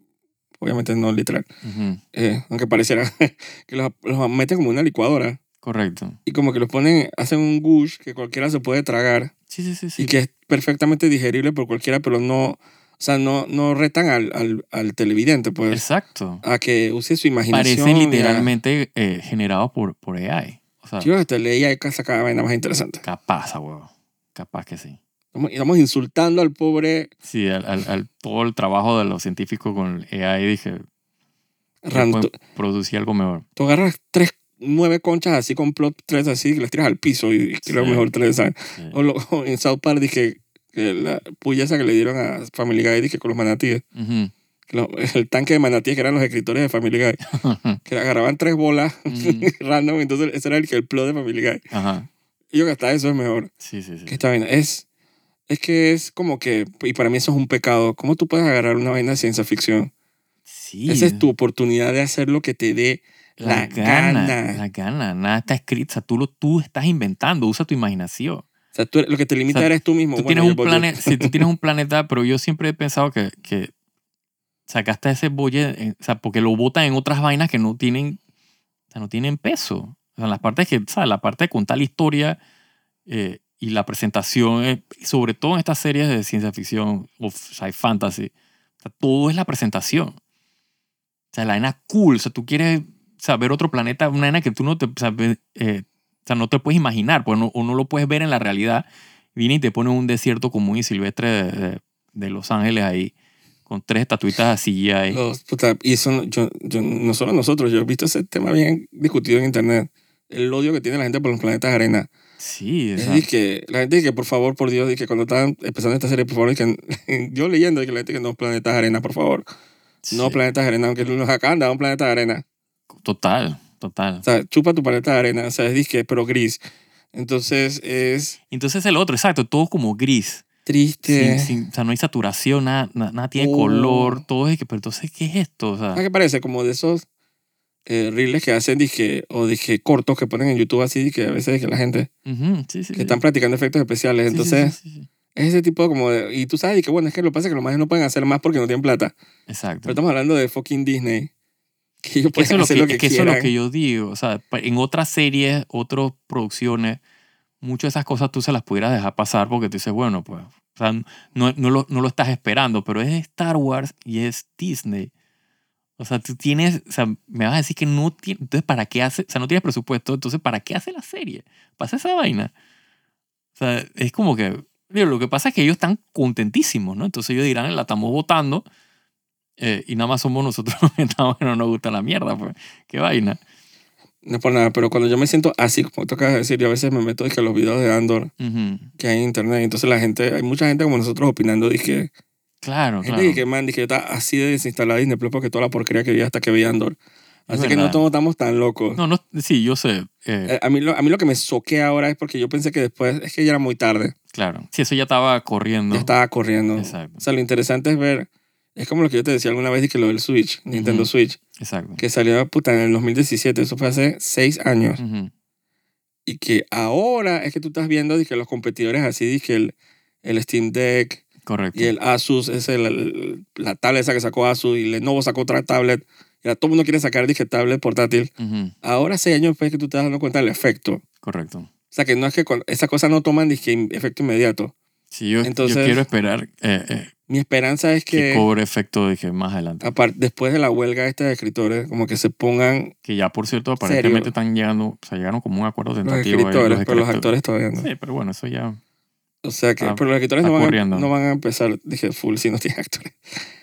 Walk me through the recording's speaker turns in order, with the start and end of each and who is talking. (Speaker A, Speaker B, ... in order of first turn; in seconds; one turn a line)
Speaker A: 0.6-1.4
Speaker B: 1.6-2.0
Speaker A: 2.1-5.4
Speaker B: 5.6-6.2
Speaker A: 6.2-9.3
Speaker B: 9.5-10.1
Speaker A: 10.0-15.8
Speaker B: 15.7-16.4
Speaker A: 16.4-18.5
Speaker B: 17.5-21.1
Speaker A: 21.0-23.0
Speaker B: 23.0-25.0
Speaker A: 25.3-27.1
Speaker B: 27.2-30.8
Speaker A: 31.8-32.3
Speaker B: 31.9-33.4
Speaker A: 33.5-43.8
Speaker B: 37.6-38.1
Speaker B: 43.9-44.3
Speaker A: 44.7-47.2
Speaker B: 47.3-47.8
Speaker A: 47.8-51.6
Speaker B: 49.1-49.5
Speaker B: 51.7-52.1
Speaker A: 52.5-53.5
Speaker B: 53.6-54.2
Speaker A: 54.1-54.8
Speaker A: 55.5-59.9
Speaker B: 60.5-61.3
Speaker A: 60.9-64.6
Speaker B: 63.4-68.4
Speaker A: 68.7-71.4
Speaker B: 69.5-73.7
Speaker B: 74.7-78.2
Speaker B: 78.9-82.4
Speaker B: 83.1-88.3
Speaker B: 88.8-90.2
Speaker B: 91.3-103.1
Speaker B: 103.7-105.2
Speaker A: 105.1-112.1
Speaker B: 112.4-113.3
Speaker A: 113.0-119.4
Speaker B: 120.0-120.4
Speaker A: 120.1-122.4
Speaker B: 122.9-124.2
Speaker A: 124.2-126.6
Speaker A: 127.1-128.4
Speaker B: 128.5-130.4
Speaker A: 130.7-131.5
Speaker B: 131.0-136.0
Speaker A: 133.4-134.2
Speaker A: 135.9-137.0
Speaker A: 137.8-142.1
Speaker B: 142.2-143.2
Speaker A: 142.9-144.8
Speaker B: 144.3-145.1
Speaker A: 145.3-149.1
Speaker B: 149.5-150.0
Speaker A: 149.8-151.3
Speaker A: 152.0-153.5
Speaker B: 152.3-157.0
Speaker B: 157.6-165.1
Speaker B: 166.0-172.5
Speaker B: 173.6-178.6
Speaker B: 179.6-183.4
Speaker A: 184.2-188.3
Speaker B: 188.4-188.9
Speaker A: 189.0-192.1
Speaker B: 192.6-193.4
Speaker A: 193.0-197.0
Speaker A: 197.5-199.0
Speaker B: 197.5-198.0
Speaker B: 198.9-200.5
Speaker A: 200.4-204.1
Speaker B: 204.3-206.1
Speaker A: 205.9-211.4
Speaker B: 206.8-207.2
Speaker B: 210.7-212.0
Speaker A: 212.0-215.0
Speaker B: 215.0-215.3
Speaker A: 216.2-221.2
Speaker B: 221.4-221.9
Speaker A: 221.7-228.3
Speaker B: 228.4-228.7
Speaker A: 228.8-231.0
Speaker B: 231.2-231.7
Speaker A: 231.9-234.7
Speaker B: 235.1-237.1
Speaker A: 235.4-236.0
Speaker A: 237.3-238.4
Speaker B: 238.1-239.9
Speaker A: 239.8-242.9
Speaker B: 243.0-248.8
Speaker A: 243.8-244.3
Speaker A: 246.0-247.9
Speaker A: 249.4-253.4
Speaker B: 249.8-251.1